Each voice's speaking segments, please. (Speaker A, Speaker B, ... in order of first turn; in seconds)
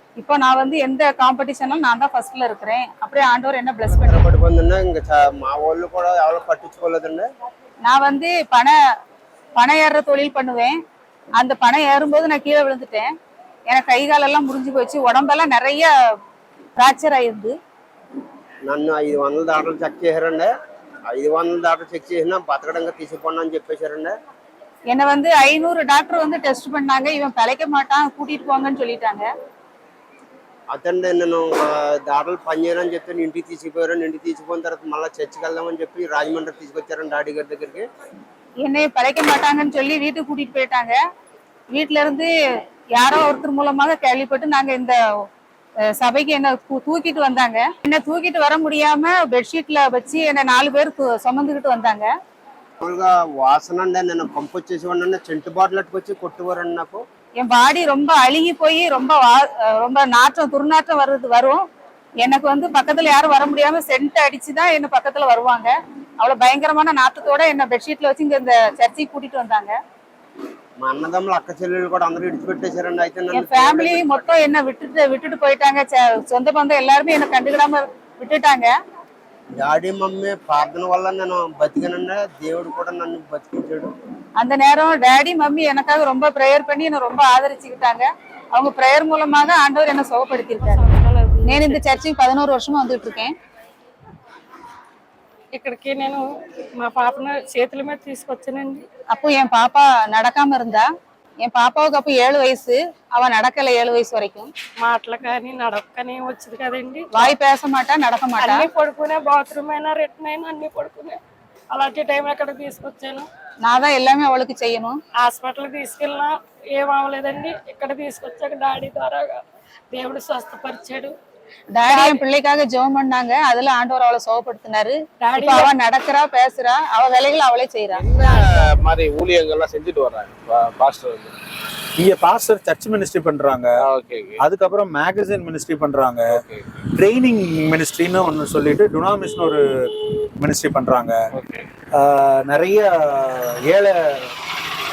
Speaker A: 0.2-4.2, 7.8-8.7, 9.6-10.8, 11.4-13.1, 13.7-15.9, 16.8-17.6, 24.9-29.3, 38.6-41.0, 41.8-42.3, 43.0-45.0, 46.0-52.1, 57.4-61.6, 62.2-69.8, 73.3-78.7, 84.4-90.8, 91.4-93.3, 99.1-100.9, 101.4-104.5, 107.1-108.7, 113.7-115.0, 121.8-128.7
Speaker B: 3.9-7.3, 18.6-20.5, 21.1-24.1, 30.7-37.9, 52.8-57.0, 70.8-74.3, 79.5-83.9
Speaker C: 90.6-91.8, 95.5-98.8, 104.8-107.3, 108.4-111.2, 111.7-113.3, 115.2-121.2, 121.9-122.2, 125.2-125.7
Speaker D: 127.9-131.4, 133.8-134.4, 136.3-136.8, 141.3-141.7
Speaker E: 132.0-133.7, 134.4-136.3, 136.9-141.2, 141.9-144.3